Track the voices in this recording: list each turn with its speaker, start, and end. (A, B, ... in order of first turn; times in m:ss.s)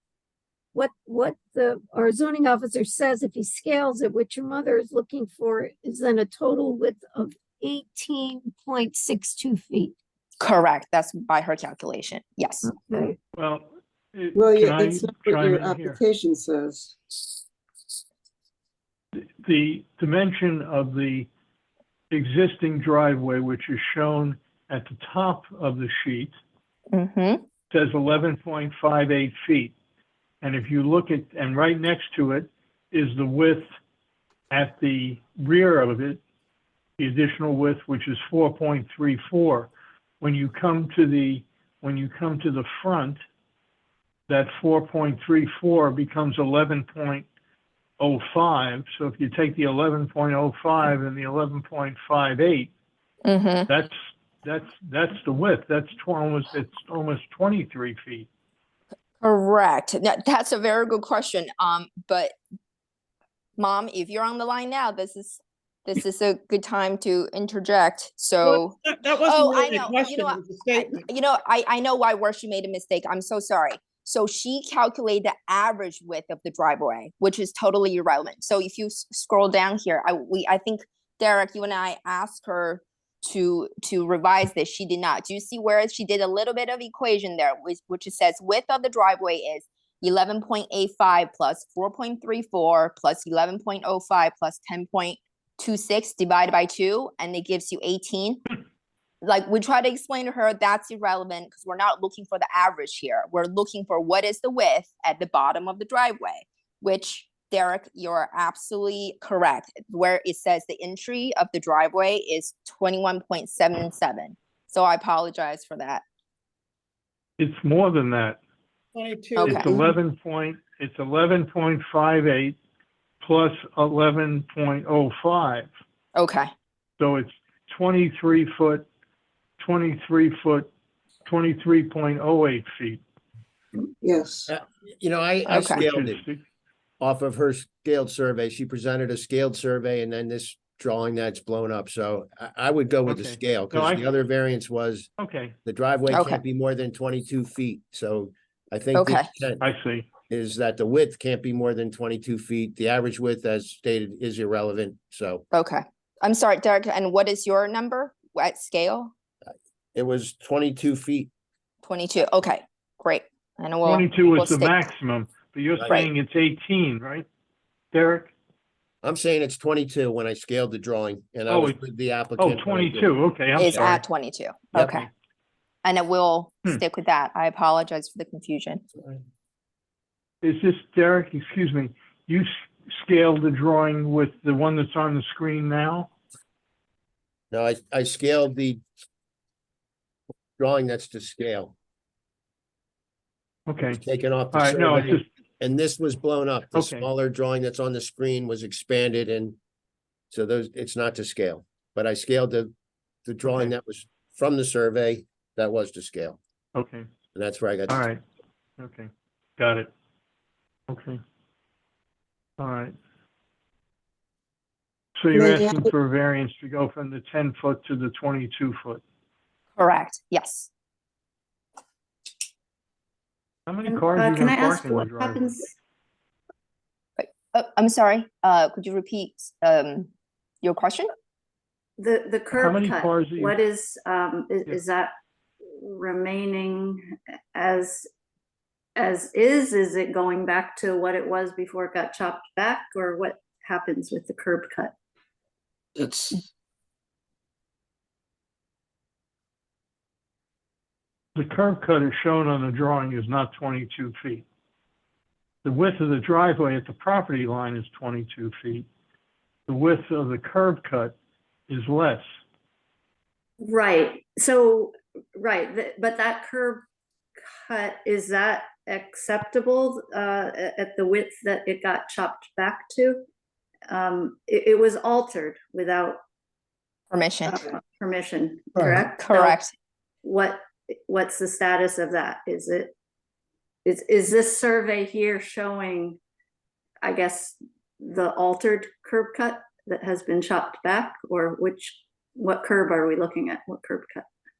0:00.7-0:09.9 A
0:10.4-0:12.7 B
0:12.6-0:13.2 A
0:13.3-0:16.0 C
0:14.3-0:17.0 D
0:19.2-0:21.3 C
0:22.1-0:26.3 C
0:26.9-0:27.4 B
0:27.7-0:29.7 C
0:30.4-0:33.7 C
0:34.5-0:36.2 C
0:37.0-0:43.2 C
0:44.3-0:47.2 C
0:48.0-0:52.7 C
0:53.2-0:53.7 B
0:53.7-0:58.3 C
0:59.2-1:02.4 B
1:03.6-1:38.4 B
1:08.4-1:11.0 E
1:39.2-1:56.0 B
1:57.4-1:58.4 C
1:58.9-1:59.5 E
1:59.4-2:02.6 C
1:59.4-1:59.7 B
1:59.5-1:59.9 D
2:03.2-2:05.7 C
2:06.1-2:06.5 B
2:07.0-2:08.8 C
2:09.6-2:10.7 C
2:11.2-2:13.0 C
2:14.0-2:14.5 D
2:14.5-2:16.2 F
2:15.5-2:16.4 C
2:15.5-2:15.8 B
2:17.0-2:25.1 F
2:23.0-2:24.1 C
2:25.2-2:25.6 C
2:25.6-2:29.6 F
2:26.1-2:26.4 B
2:28.9-2:29.3 B
2:29.6-2:30.1 C
2:30.3-2:35.4 F
2:35.5-2:39.1 B
2:39.9-2:41.3 F
2:41.8-2:44.8 B
2:43.8-2:47.3 C
2:47.9-2:48.3 C
2:49.0-2:53.2 F
2:51.5-2:51.8 C
2:52.4-2:54.0 C
2:53.6-2:55.1 B
2:53.7-2:54.0 F
2:55.8-2:58.8 B
3:00.4-3:06.1 C
3:07.5-3:08.8 F
3:10.6-3:11.7 F
3:13.7-3:14.0 C
3:13.9-3:19.6 F
3:14.5-3:15.2 C
3:16.7-3:17.1 C
3:20.3-3:22.7 F
3:23.2-3:26.4 F
3:23.5-3:23.7 C
3:26.7-3:27.1 C
3:27.3-3:28.0 F
3:27.9-3:28.2 C
3:28.8-3:29.9 C
3:30.9-3:31.2 C
3:32.6-3:33.0 C
3:35.2-3:39.0 C
3:35.3-3:35.9 D
3:39.8-3:40.7 B
3:43.7-3:45.5 C
3:43.8-3:45.7 G
3:47.2-3:50.1 B
3:50.6-3:51.1 B
3:52.0-3:55.1 G
3:52.5-3:53.5 C
3:55.8-3:57.0 G
3:57.5-3:58.1 G
3:59.0-4:04.9 G
4:06.0-4:06.4 D
4:11.3-4:14.4 C
4:15.6-4:18.9 C
4:19.7-4:21.2 C
4:21.7-4:22.2 C
4:23.6-4:26.8 G
4:27.6-4:33.2 G
4:33.9-4:36.2 G
4:37.1-4:37.6 B
4:37.5-4:39.6 G
4:39.2-4:39.7 B
4:40.2-4:42.9 G
4:43.8-4:46.2 G
4:47.0-4:54.3 G